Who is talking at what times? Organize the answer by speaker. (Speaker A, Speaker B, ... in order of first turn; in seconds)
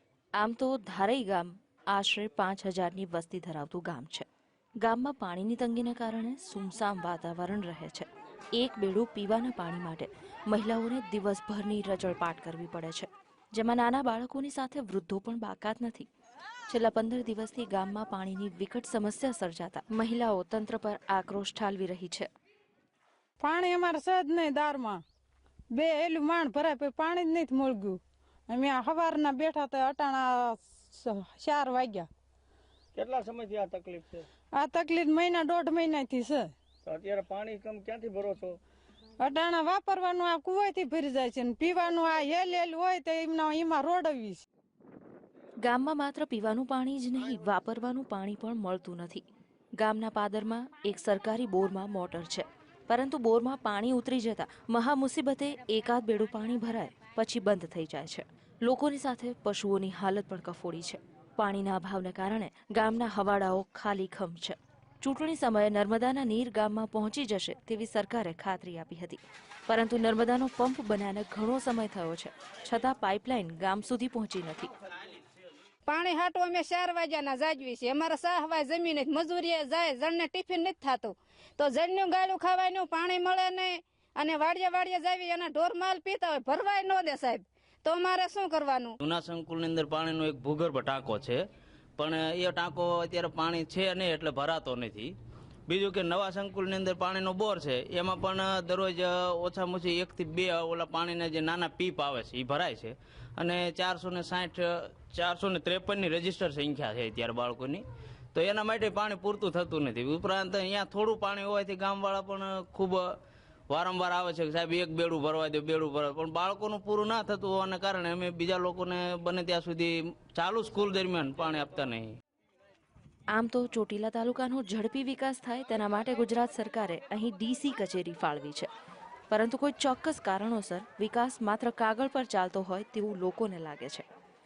Speaker A: 0.4-4.2, 4.8-16.1, 16.7-22.3, 45.6-49.2, 49.8-74.7, 123.3-128.7, 129.3-134.1
Speaker B: 23.4-25.0, 25.7-32.1, 34.5-36.5, 39.2-44.4
Speaker C: 33.0-34.2, 36.9-38.5
Speaker D: 75.9-89.0
Speaker E: 89.0-91.4, 92.0-95.1, 95.7-107.8, 108.3-113.0, 113.7-122.1